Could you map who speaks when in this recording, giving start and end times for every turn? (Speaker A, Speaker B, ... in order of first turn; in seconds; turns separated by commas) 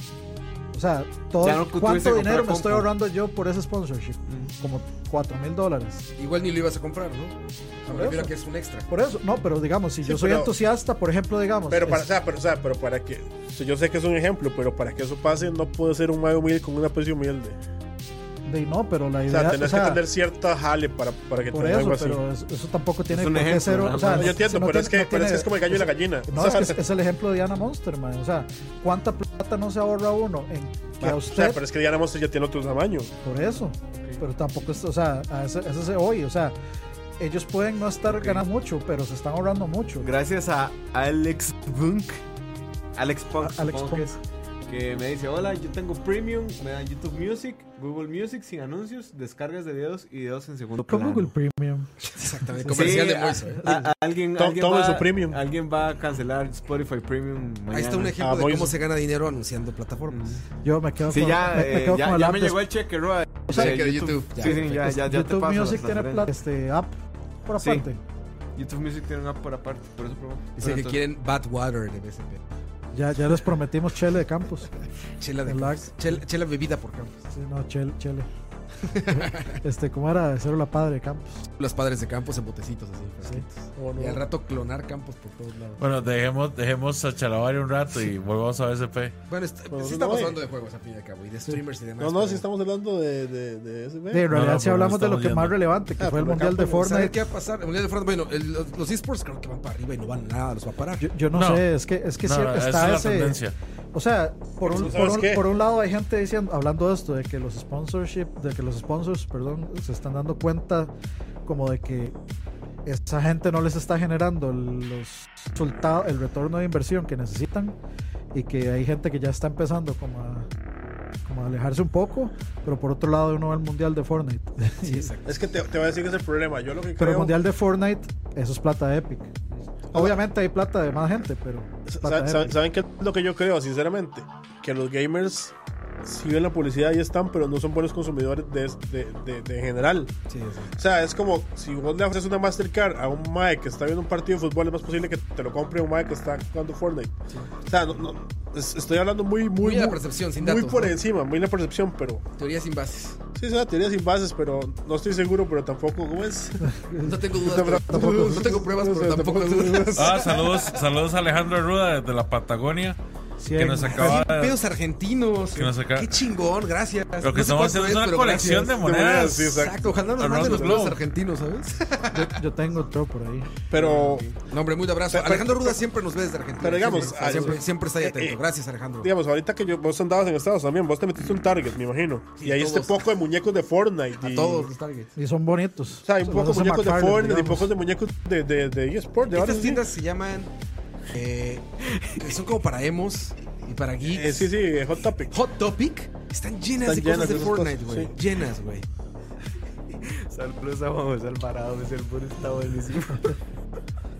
Speaker A: 0.7-6.1, Speaker B: 1.4-2.9, Speaker C: 6.2-8.9, Speaker A: 7.9-8.3, Speaker A: 8.9-12.1, Speaker D: 10.0-10.5, Speaker D: 11.7-17.6, Speaker A: 18.5-20.0, Speaker D: 19.3-22.2, Speaker A: 21.5-31.6, Speaker B: 23.1-24.4, Speaker D: 24.0-26.8, Speaker D: 31.0-33.1, Speaker A: 33.2-36.5, Speaker A: 37.2-40.1, Speaker B: 38.1-38.4, Speaker B: 40.0-42.2, Speaker B: 43.0-51.3, Speaker A: 43.4-44.1, Speaker A: 50.9-53.9, Speaker C: 52.0-53.6, Speaker B: 52.7-58.2, Speaker D: 54.4-55.4, Speaker C: 57.7-60.4, Speaker D: 58.2-58.8, Speaker B: 60.1-60.4, Speaker A: 60.6-62.6, Speaker B: 61.1-66.3, Speaker A: 63.5-63.8, Speaker C: 63.5-64.8, Speaker A: 64.4-67.0, Speaker A: 67.5-68.0, Speaker B: 68.6-71.0, Speaker C: 70.6-72.4, Speaker A: 72.9-74.7, Speaker C: 75.2-77.3, Speaker A: 75.5-76.0, Speaker A: 77.3-78.3, Speaker C: 78.8-79.6, Speaker A: 79.2-81.4, Speaker C: 81.6-85.8, Speaker D: 83.8-84.2, Speaker E: 85.8-89.1, Speaker C: 89.3-92.4, Speaker D: 89.7-90.4, Speaker D: 92.0-94.3, Speaker A: 94.1-97.2, Speaker E: 94.3-95.6, Speaker D: 96.0-96.8, Speaker C: 96.7-101.1, Speaker A: 101.0-103.4, Speaker E: 101.3-101.7, Speaker E: 102.2-103.5, Speaker A: 103.9-110.9, Speaker D: 104.6-105.5, Speaker A: 111.5-112.2, Speaker A: 112.9-117.8, Speaker A: 118.3-120.5, Speaker A: 121.3-125.1, Speaker C: 124.8-125.4, Speaker D: 125.2-127.4, Speaker A: 127.0-129.3, Speaker D: 129.9-130.2, Speaker A: 129.9-132.6, Speaker D: 131.9-140.1, Speaker C: 140.3-140.8, Speaker D: 140.8-152.2, Speaker C: 149.6-151.0, Speaker C: 152.4-153.2, Speaker D: 153.4-160.3, Speaker C: 157.0-160.8, Speaker E: 159.9-163.0, Speaker A: 163.4-164.2, Speaker E: 163.5-164.6, Speaker C: 163.9-168.8, Speaker E: 165.6-166.1, Speaker E: 167.2-171.0, Speaker D: 168.4-170.8, Speaker C: 169.5-172.4, Speaker A: 172.1-173.5, Speaker D: 173.7-174.3, Speaker B: 173.8-174.3, Speaker C: 174.4-179.1, Speaker D: 175.1-175.8, Speaker D: 176.6-178.4, Speaker D: 179.0-184.7, Speaker C: 182.4-183.1, Speaker C: 184.2-185.1, Speaker A: 185.2-187.7, Speaker D: 186.1-189.8, Speaker C: 189.3-190.5, Speaker C: 191.1-194.5, Speaker D: 194.1-195.3, Speaker C: 195.3-198.9, Speaker D: 196.8-198.1, Speaker B: 200.0-203.4